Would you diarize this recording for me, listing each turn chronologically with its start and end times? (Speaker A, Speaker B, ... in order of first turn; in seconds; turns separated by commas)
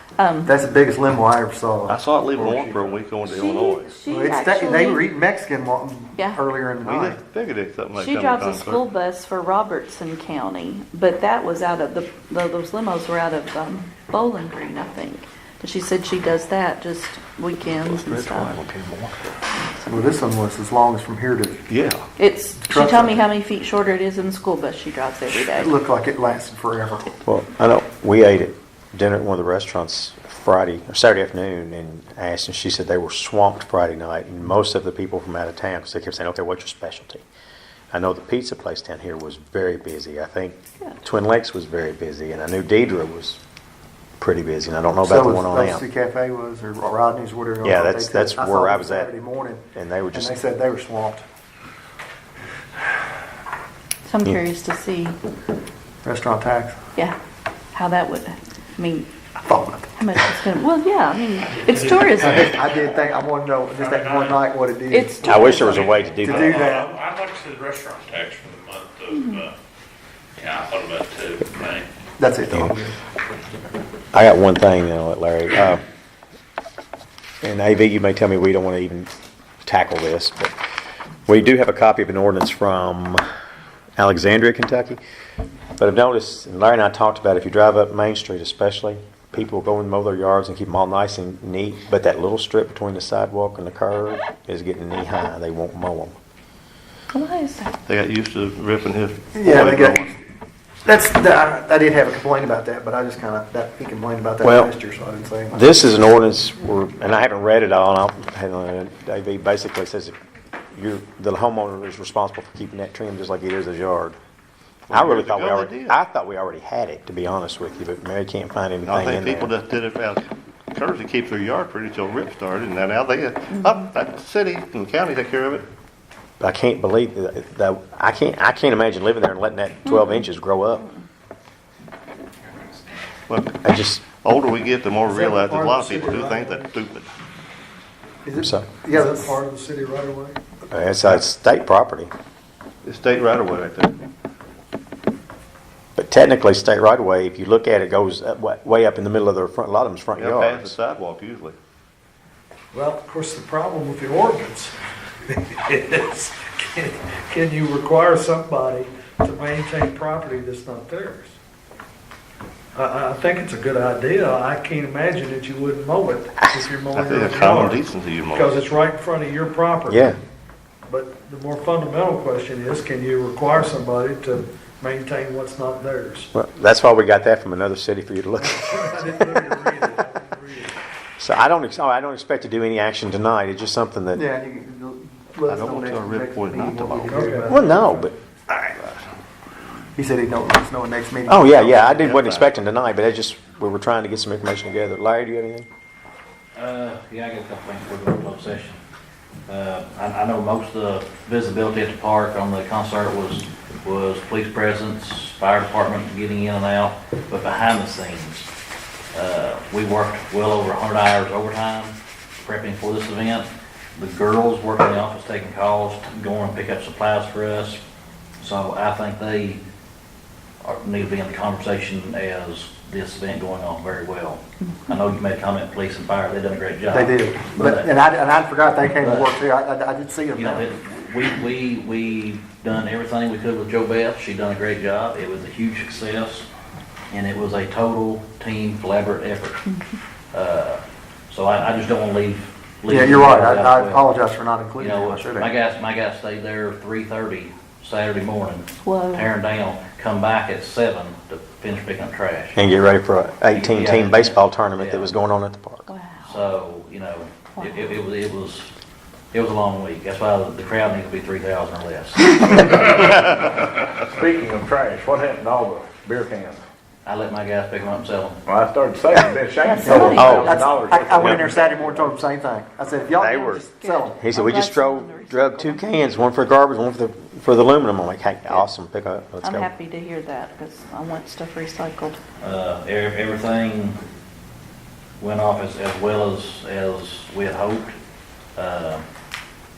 Speaker A: 0.2-0.6, Speaker B: 0.5-2.0, Speaker C: 1.9-4.0, Speaker A: 3.2-5.0, Speaker B: 4.1-7.2, Speaker C: 6.8-8.8, Speaker A: 8.0-18.6, Speaker C: 18.1-19.0, Speaker B: 19.8-21.6, Speaker C: 21.7-22.1, Speaker A: 22.2-25.7, Speaker B: 22.6-23.2, Speaker B: 25.3-27.2, Speaker D: 27.2-37.2, Speaker D: 37.9-43.4, Speaker D: 44.2-45.8, Speaker B: 45.0-49.6, Speaker D: 47.6-49.1, Speaker D: 49.7-50.4, Speaker B: 50.1-51.2, Speaker A: 54.0-55.2, Speaker B: 56.0-56.8, Speaker A: 57.7-59.1, Speaker B: 59.4-59.9, Speaker A: 60.0-62.5, Speaker B: 62.2-67.0, Speaker E: 63.8-64.4, Speaker A: 64.9-65.9, Speaker D: 65.2-66.7, Speaker E: 65.8-69.5, Speaker A: 69.1-69.4, Speaker E: 70.4-71.9, Speaker B: 72.2-73.0, Speaker D: 74.1-75.8, Speaker D: 77.4-79.1, Speaker D: 79.7-80.5, Speaker D: 81.3-83.2, Speaker D: 84.0-85.0, Speaker D: 85.8-96.2, Speaker A: 97.1-97.7, Speaker C: 97.8-100.1, Speaker B: 99.3-100.1, Speaker B: 100.8-105.7, Speaker D: 104.4-104.7, Speaker D: 105.5-110.2, Speaker D: 110.7-114.2, Speaker C: 114.9-116.0, Speaker D: 114.9-119.5, Speaker C: 118.9-125.7, Speaker D: 126.4-130.9, Speaker A: 129.9-130.2, Speaker C: 133.3-137.1, Speaker D: 133.6-134.1, Speaker F: 135.0-136.7, Speaker B: 138.2-139.4, Speaker D: 138.4-138.7, Speaker F: 138.9-140.4, Speaker D: 140.7-142.1, Speaker C: 142.8-143.9, Speaker D: 146.0-150.8, Speaker C: 150.2-151.6, Speaker F: 152.7-154.8, Speaker F: 155.3-161.4, Speaker F: 162.8-170.1, Speaker C: 166.9-168.6, Speaker D: 169.9-170.2, Speaker F: 170.9-176.3, Speaker D: 176.3-179.5, Speaker F: 178.4-180.7, Speaker D: 181.2-184.2, Speaker B: 184.2-187.6, Speaker C: 185.5-187.3, Speaker F: 187.1-188.1, Speaker D: 187.5-188.1, Speaker B: 189.9-192.1, Speaker D: 191.3-195.7, Speaker C: 192.1-192.4, Speaker G: 196.6-198.8, Speaker G: 199.5-208.5, Speaker G: 209.1-217.8, Speaker G: 218.4-219.6, Speaker G: 220.6-228.0, Speaker B: 226.9-230.7, Speaker G: 228.9-229.4, Speaker G: 230.3-236.5, Speaker G: 237.1-239.6, Speaker G: 240.3-244.1, Speaker B: 242.9-245.5, Speaker G: 244.8-252.6, Speaker A: 248.8-249.3, Speaker D: 252.6-255.9, Speaker G: 253.5-255.1, Speaker A: 255.9-256.4, Speaker G: 256.2-258.7, Speaker A: 257.6-258.0, Speaker G: 259.3-263.5, Speaker H: 264.0-266.6, Speaker G: 267.1-268.4, Speaker H: 268.5-272.1, Speaker A: 269.6-270.8, Speaker B: 269.8-274.2, Speaker D: 270.1-270.6, Speaker D: 271.1-271.5, Speaker D: 273.2-273.6, Speaker A: 273.8-276.2, Speaker D: 274.2-279.7, Speaker A: 279.4-282.2, Speaker G: 282.4-284.0, Speaker G: 285.2-287.9, Speaker G: 288.6-289.0